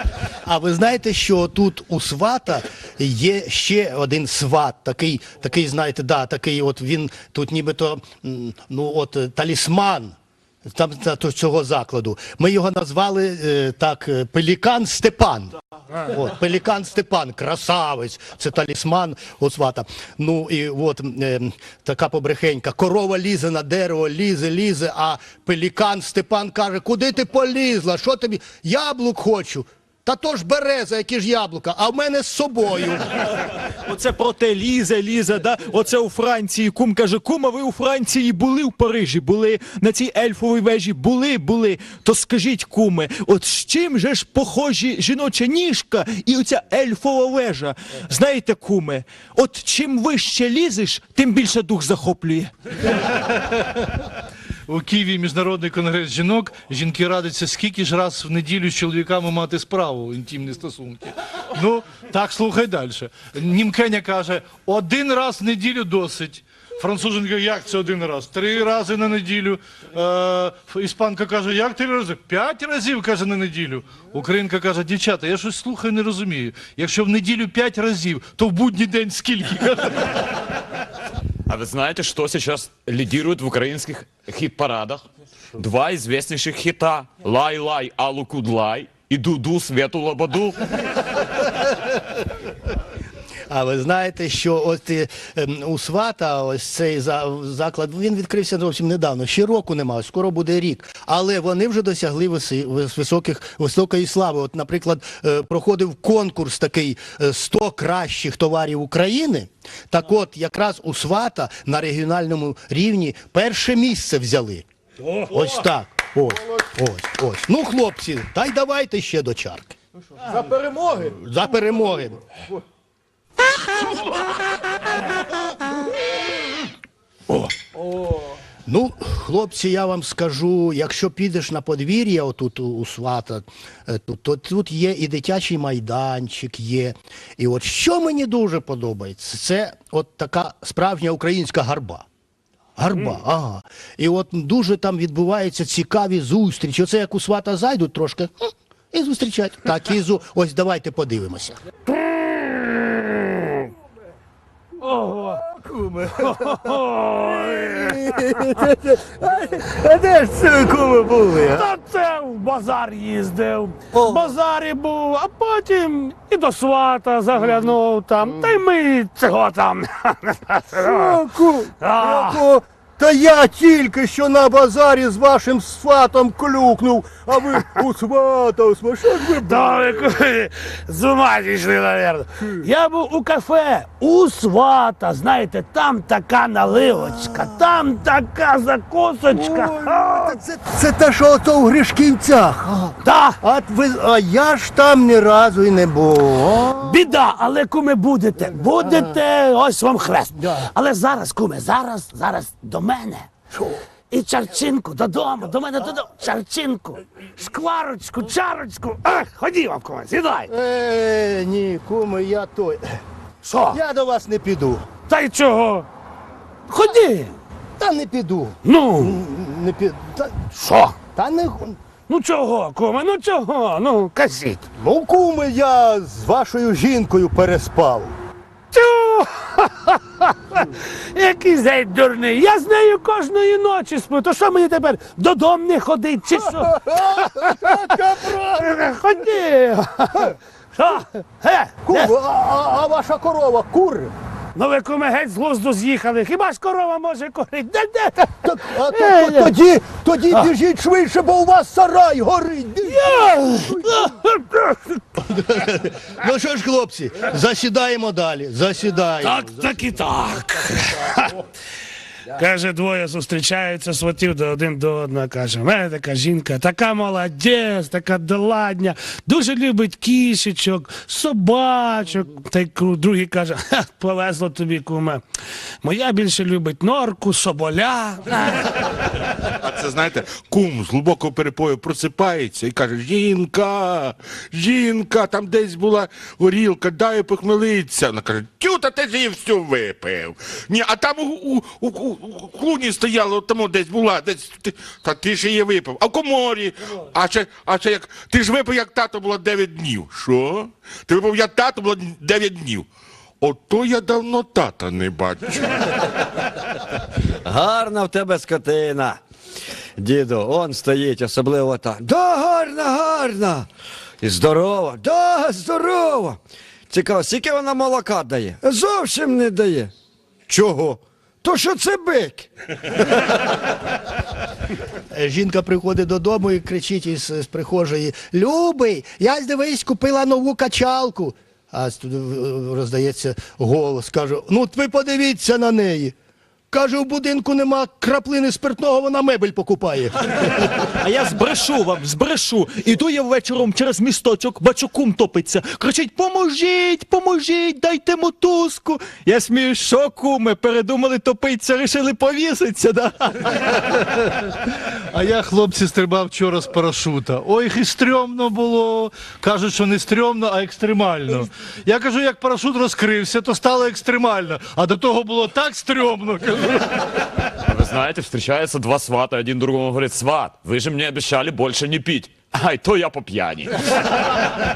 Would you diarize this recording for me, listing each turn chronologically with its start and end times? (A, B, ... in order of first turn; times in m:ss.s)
0:00.4-0:33.2 A
0:33.6-0:52.5 B
0:54.7-1:19.8 C
1:21.5-1:25.0 D
1:25.6-1:31.2 D
1:33.5-1:54.6 A
1:55.2-1:59.8 A
2:00.9-2:02.2 A
2:08.7-2:22.0 A
2:22.8-2:28.3 A
2:28.9-2:31.6 A
2:32.0-2:33.6 E
2:34.8-2:35.4 E
2:35.6-2:36.3 A
2:36.2-2:38.6 E
2:37.4-2:41.6 A
2:41.5-2:51.2 E
2:43.9-2:44.3 A
2:48.2-2:48.5 A
2:50.8-3:00.1 A
2:51.8-2:52.4 E
2:59.4-3:10.4 E
3:07.0-3:07.5 A
3:09.3-3:17.0 A
3:13.0-3:13.4 E
3:16.8-3:23.3 E
3:18.4-3:19.2 A
3:20.3-3:20.7 A
3:24.1-3:30.5 E
3:30.5-3:33.0 A
3:33.4-3:33.8 E
3:33.7-3:34.8 A
3:35.1-3:35.9 E
3:36.7-3:37.3 E
3:37.8-3:40.4 A
3:38.6-3:39.2 E
3:40.5-3:40.9 E
3:41.1-3:41.8 A
3:42.1-3:44.6 E
3:44.7-3:48.1 A
3:48.7-3:57.8 E
3:56.4-3:58.7 A
3:58.5-4:02.1 E
4:01.8-4:04.1 A
4:04.5-4:09.5 E
4:08.4-4:13.1 A
4:12.8-4:14.7 E
4:13.6-4:14.1 A
4:15.2-4:19.8 A
4:19.2-4:21.4 E
4:22.3-4:35.2 E
4:35.8-4:38.8 E
4:39.6-5:02.9 F
5:03.4-5:06.2 F
5:07.4-5:09.2 G
5:10.0-5:13.7 G
5:14.2-5:19.9 G
5:20.5-5:22.5 G
5:25.1-5:36.1 A
5:36.7-5:40.8 A
5:40.8-5:54.0 B
5:55.1-6:06.8 C
6:07.6-6:14.2 D